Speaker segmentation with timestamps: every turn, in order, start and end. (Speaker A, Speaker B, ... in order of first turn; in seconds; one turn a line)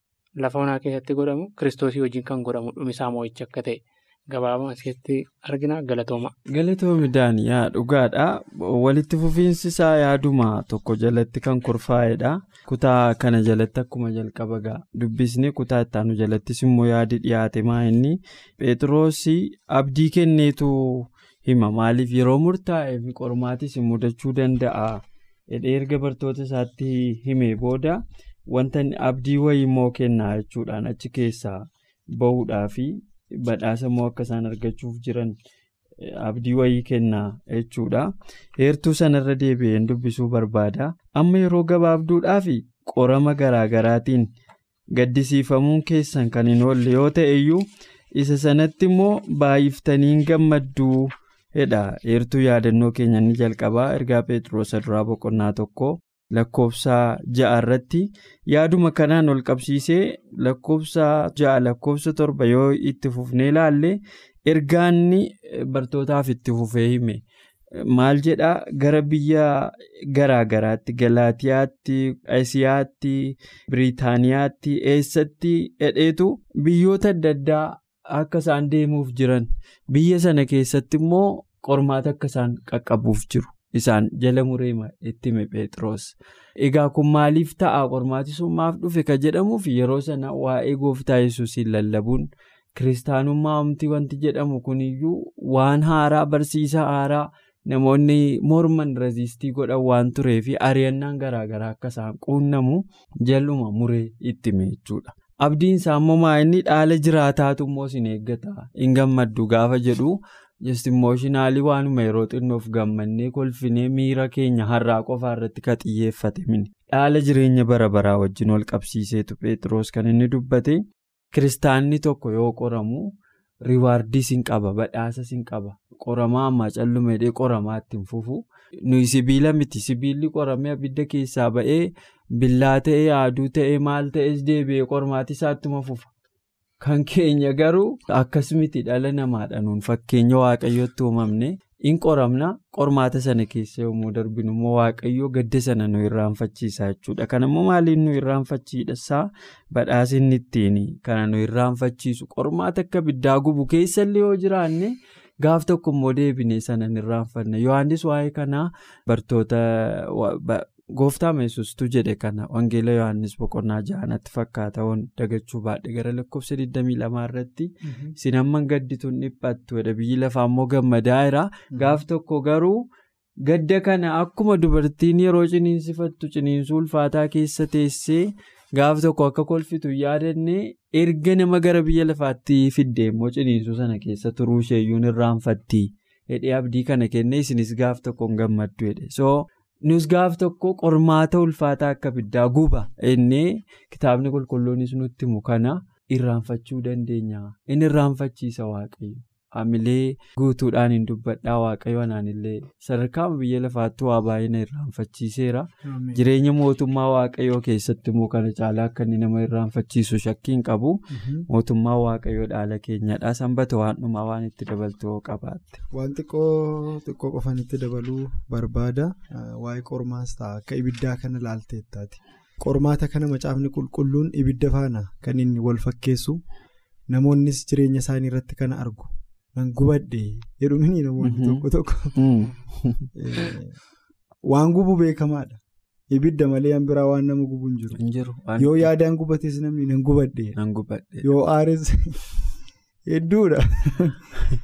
Speaker A: 0.4-6.3
Speaker B: 6.5-31.6
Speaker B: 32.1-35.3
Speaker B: 36.0-44.2
Speaker B: 44.9-47.6
Speaker B: 48.1-67.2
Speaker B: 67.8-123.1
Speaker B: 123.6-136.1
Speaker B: 136.8-172.8
Speaker C: 167.8-168.1
Speaker C: 171.7-172.0
Speaker B: 173.4-211.0
Speaker C: 205.8-206.2
Speaker C: 211.1-211.4
Speaker B: 211.5-215.8
Speaker C: 215.9-226.4
Speaker C: 227.1-232.2
Speaker B: 231.2-233.1
Speaker C: 233.2-233.8
Speaker C: 234.4-238.0
Speaker B: 237.9-238.9
Speaker C: 238.6-240.6
Speaker B: 240.6-241.3
Speaker C: 241.2-242.2
Speaker C: 243.1-244.3